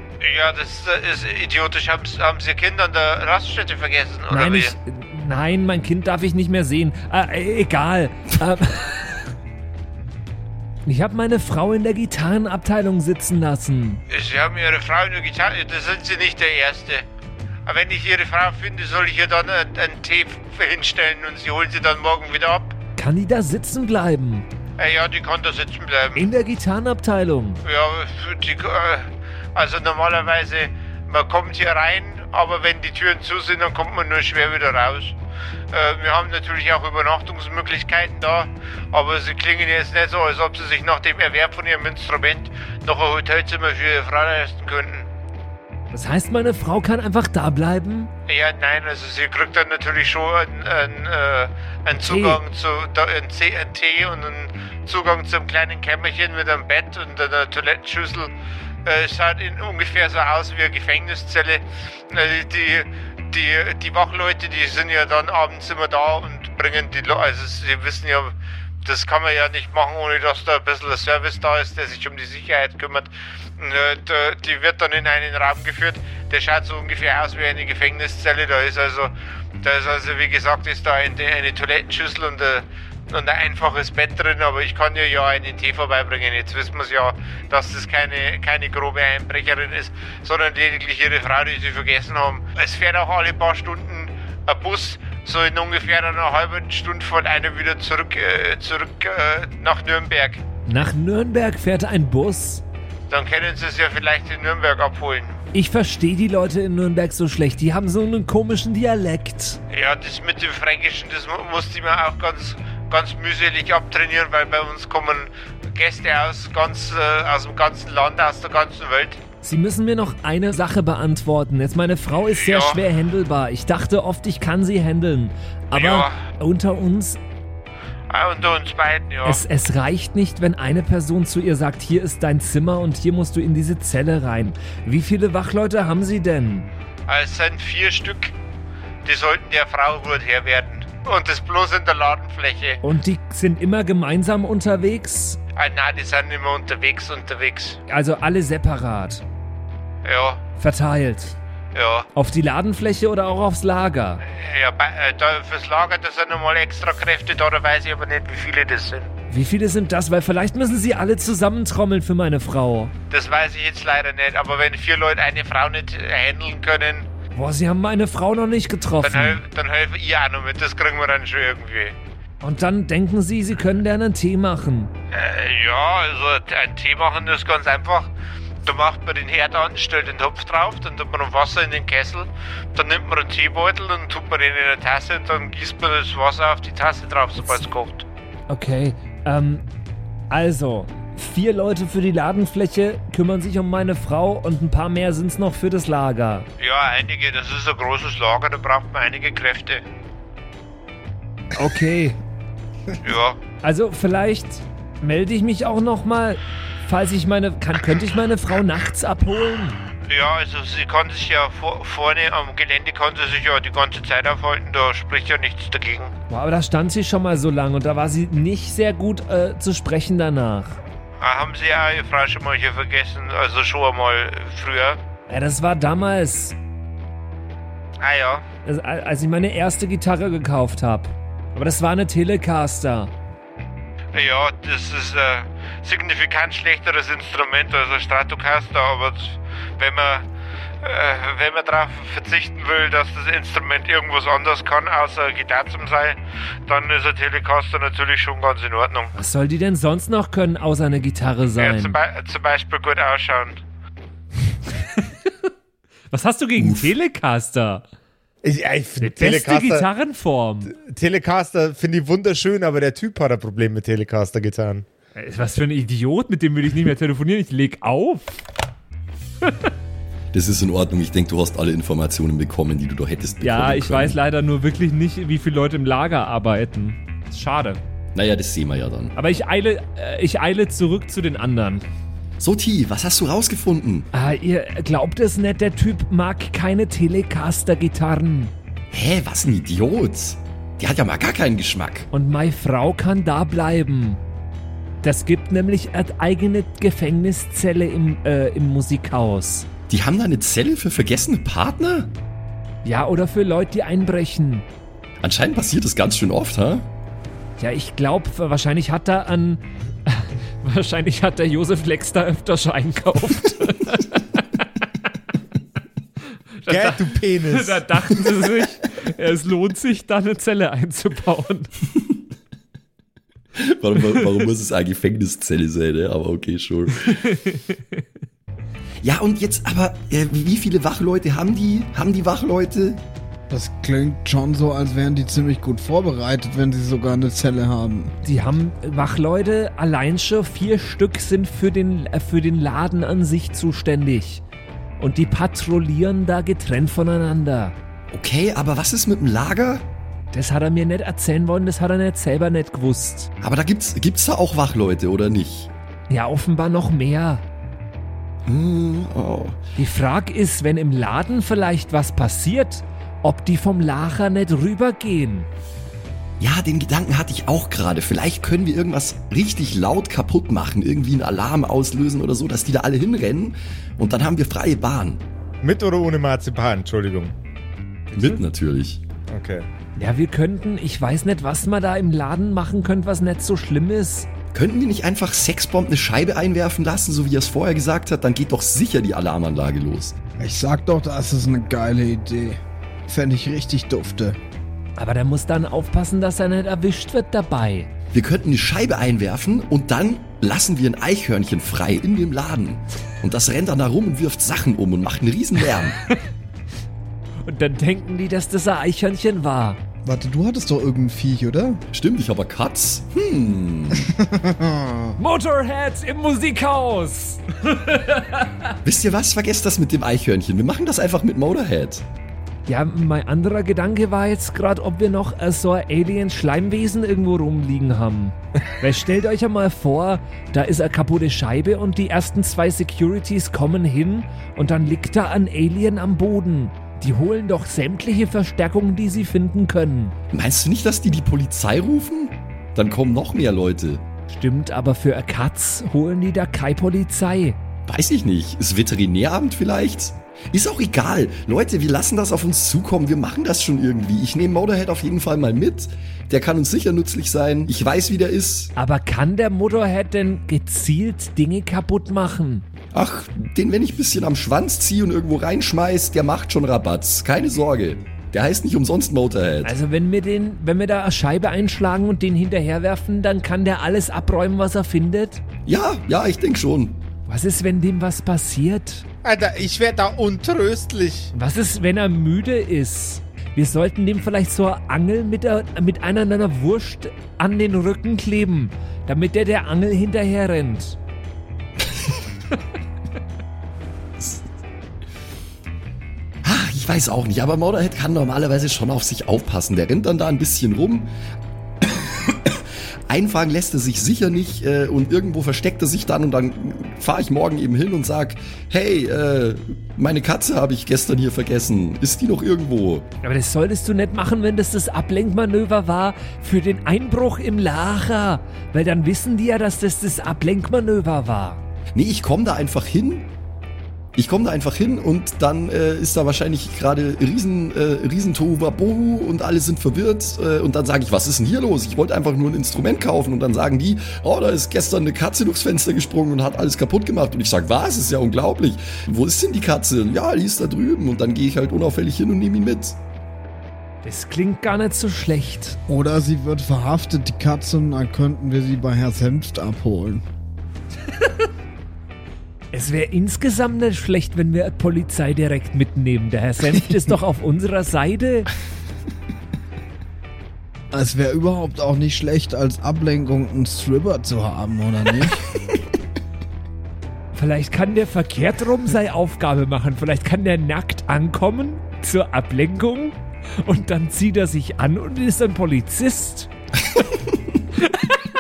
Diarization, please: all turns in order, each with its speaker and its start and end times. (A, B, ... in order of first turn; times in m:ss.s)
0:00.2-0:04.8 A
0:04.3-0:09.3 B
0:10.9-0:14.0 B
0:14.1-0:17.0 A
0:17.7-0:22.8 A
0:23.0-0:24.5 B
0:24.8-0:26.2 A
0:26.1-0:27.6 B
0:27.6-0:35.2 A
0:35.7-0:45.1 A
0:45.9-0:48.1 B
0:48.3-0:58.3 A
0:52.0-0:52.4 B
0:58.8-1:40.4 A
1:40.7-1:42.6 B
1:43.1-1:45.4 A
1:45.5-1:49.6 B
1:49.7-1:59.2 A
1:59.4-2:07.2 B
2:02.3-2:02.8 A
2:05.7-2:06.2 A
2:08.1-2:09.4 A
2:09.2-2:16.7 B
2:17.1-2:18.3 A
2:19.0-2:22.8 A
2:22.8-2:25.4 B
2:25.6-2:27.8 A
2:27.9-2:29.2 B
2:30.0-2:30.4 A
2:30.6-2:31.4 B
2:31.7-2:32.1 A
2:32.1-2:34.2 B
2:34.3-2:39.1 A
2:39.3-2:42.9 B
2:43.1-2:47.1 A
2:47.4-2:49.4 B
2:49.0-2:52.0 A
2:52.4-2:54.9 B
2:55.1-2:58.1 A
2:58.6-3:08.0 A
3:07.4-3:07.7 B
3:08.5-3:09.6 B
3:10.3-3:16.5 B
3:16.6-3:19.8 A
3:21.5-3:22.2 B
3:23.0-3:23.4 A
3:23.6-3:29.8 B
3:30.0-3:36.1 A
3:36.3-3:40.8 B
3:41.2-3:45.0 A
3:45.3-3:46.6 B
3:48.0-3:48.4 A
3:48.7-3:53.1 B
3:54.1-4:00.3 A
4:00.8-4:09.1 A
4:09.2-4:12.0 B
4:11.6-4:13.6 A
4:16.1-4:17.8 B
4:16.6-4:16.9 C
4:18.4-4:19.9 D
4:19.0-4:20.7 B
4:20.7-4:24.8 D
4:25.2-4:28.4 B
4:30.3-4:34.2 C
4:33.4-4:37.8 B
4:38.2-4:39.2 C
4:39.2-4:41.9 B
4:42.4-4:44.1 C
4:44.1-4:48.5 B
4:48.9-4:52.1 C
4:52.1-4:54.2 B
4:55.0-4:59.7 B
4:59.9-5:02.1 C
5:02.8-5:04.6 B
5:05.2-5:06.9 C
5:07.6-5:14.6 B
5:16.6-5:21.7 B
5:16.7-5:17.8 D
5:23.6-5:27.2 C
5:27.1-5:28.0 B
5:29.0-5:33.0 C
5:33.5-5:38.1 E
5:38.2-5:44.4 B
5:45.0-5:47.8 B
5:48.1-5:49.9 C
5:50.3-5:53.3 B
5:53.4-5:55.7 C
5:56.1-5:57.4 B
5:58.5-5:59.6 C
5:59.8-6:05.5 B
6:06.4-6:15.2 C
6:15.6-6:17.3 D
6:18.1-6:19.0 C
6:19.3-6:19.7 D
6:20.0-6:24.3 B
6:24.5-6:30.2 C
6:30.4-6:34.4 E
6:35.0-6:37.9 B
6:38.1-6:46.0 C
6:47.4-6:49.8 B
6:50.0-6:51.8 E
6:51.9-6:54.1 C
6:54.0-6:55.2 E
6:55.2-6:58.8 B
6:58.8-7:02.0 C
7:02.7-7:20.2 B
7:20.3-7:24.0 C
7:24.3-7:27.6 B
7:27.9-7:38.7 C
7:38.8-7:42.7 B
7:42.9-7:49.8 C
7:49.6-7:55.4 B
7:55.7-7:57.0 C
7:57.3-7:59.0 B
7:59.2-8:01.3 D
8:01.3-8:11.0 B
8:16.4-8:21.1 C
8:21.8-8:33.1 C
8:33.2-8:41.6 B
8:42.0-8:43.3 C
8:44.2-9:03.0 C
9:04.0-9:05.8 B
9:05.9-9:10.2 E
9:12.7-9:18.5 B
9:20.9-9:25.5 E
9:27.3-9:36.5 B